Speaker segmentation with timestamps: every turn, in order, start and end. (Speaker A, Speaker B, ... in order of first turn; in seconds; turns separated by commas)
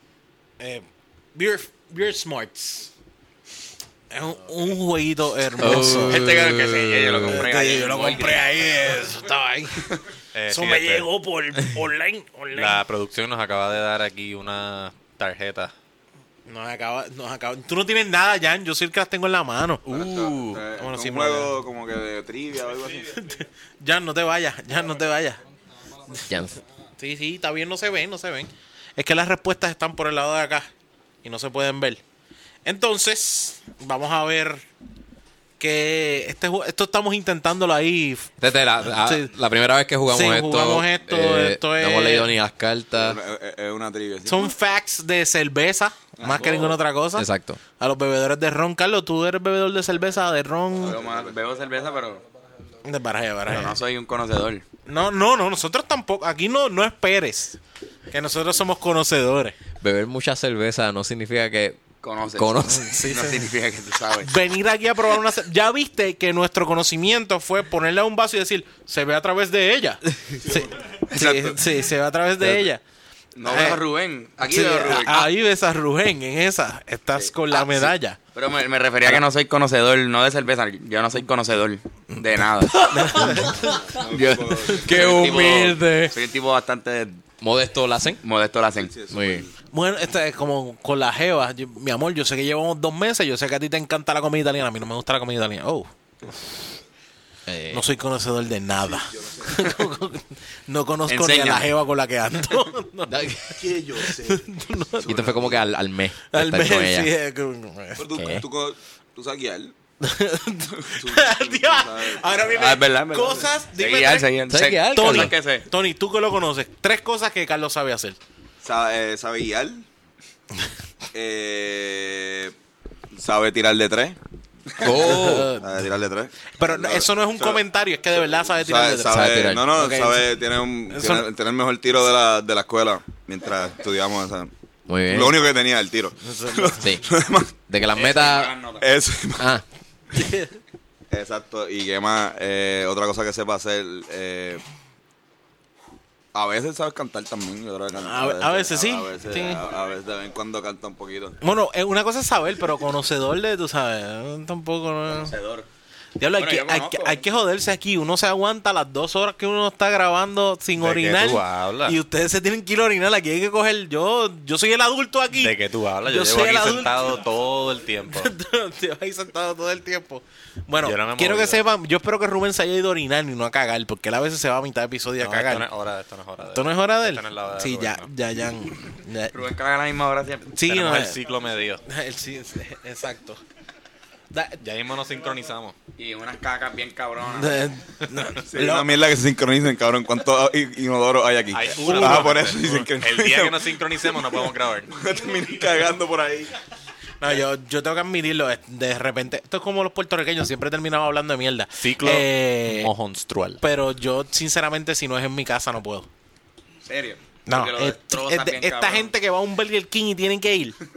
Speaker A: 0.6-2.9, Speaker A: 4.1-6.3, Speaker B: 5.6-7.4, Speaker C: 6.0-8.6, Speaker A: 7.3-9.9, Speaker D: 10.3-11.1, Speaker A: 10.5-12.8, Speaker D: 12.5-15.7, Speaker A: 16.5-19.8, Speaker D: 19.9-20.6, Speaker E: 19.9-23.2, Speaker A: 20.8-21.5, Speaker A: 23.1-25.4, Speaker B: 26.3-26.6, Speaker A: 27.0-30.7, Speaker A: 31.2-32.0, Speaker A: 32.6-34.6, Speaker A: 35.6-38.3, Speaker B: 38.4-43.2, Speaker A: 39.0-39.3, Speaker A: 40.1-42.3, Speaker E: 43.0-44.5, Speaker A: 44.3-51.0, Speaker E: 46.2-46.8, Speaker C: 46.4-46.8, Speaker B: 47.1-47.6, Speaker E: 50.8-51.4, Speaker C: 50.8-52.2, Speaker A: 52.8-53.8, Speaker C: 53.5-54.6, Speaker A: 54.9-57.6, Speaker A: 58.1-59.6, Speaker B: 59.8-62.8, Speaker C: 62.0-64.3, Speaker A: 62.8-63.4, Speaker A: 64.2-72.8, Speaker E: 70.4-71.5, Speaker C: 71.2-71.5, Speaker C: 73.4-75.3, Speaker A: 73.4-73.8, Speaker A: 74.4-78.2, Speaker C: 77.1-83.3, Speaker B: 82.7-86.2, Speaker A: 82.8-83.8, Speaker E: 83.4-85.3, Speaker C: 84.9-87.2, Speaker B: 87.4-88.2, Speaker C: 88.2-88.9, Speaker E: 88.8-89.5, Speaker B: 89.1-89.5, Speaker A: 89.7-96.3, Speaker B: 97.5-97.8, Speaker A: 97.7-105.3, Speaker E: 98.8-99.9, Speaker C: 101.1-101.7, Speaker B: 103.1-103.4, Speaker E: 103.5-104.5, Speaker E: 105.0-105.6, Speaker B: 105.1-107.1, Speaker A: 106.3-108.1, Speaker E: 108.0-109.7, Speaker B: 108.2-108.4, Speaker A: 110.0-114.3, Speaker E: 110.7-112.8, Speaker C: 112.5-115.7, Speaker B: 114.5-115.3, Speaker A: 114.9-118.2, Speaker E: 118.6-119.9, Speaker E: 121.1-122.6, Speaker E: 123.1-124.2, Speaker B: 124.8-125.5, Speaker E: 124.8-134.5, Speaker A: 125.1-125.7, Speaker A: 126.6-130.3, Speaker B: 129.1-129.7, Speaker A: 130.9-131.3, Speaker B: 134.9-135.4, Speaker E: 135.1-137.6, Speaker A: 136.2-137.0, Speaker B: 137.7-138.5, Speaker C: 137.9-138.9, Speaker E: 138.8-139.6, Speaker A: 140.1-140.6, Speaker E: 141.1-144.6, Speaker E: 146.3-151.4, Speaker A: 148.0-149.6, Speaker A: 151.4-155.3, Speaker C: 155.1-155.7, Speaker A: 156.2-167.2, Speaker C: 156.4-157.2, Speaker D: 160.8-162.0, Speaker D: 165.3-168.3, Speaker A: 168.1-175.7, Speaker D: 170.8-171.6, Speaker D: 175.2-178.1, Speaker A: 176.5-179.3, Speaker C: 179.3-180.6, Speaker A: 180.5-181.2, Speaker D: 180.7-181.8, Speaker A: 181.9-183.4, Speaker A: 184.3-184.6, Speaker D: 184.6-185.8, Speaker C: 186.0-187.6, Speaker A: 187.3-188.9, Speaker E: 188.5-194.3, Speaker D: 191.5-194.9, Speaker A: 191.8-192.4, Speaker E: 194.9-196.5, Speaker A: 197.2-202.9, Speaker D: 201.8-203.6, Speaker A: 203.6-206.1, Speaker C: 206.8-209.1, Speaker A: 207.5-210.8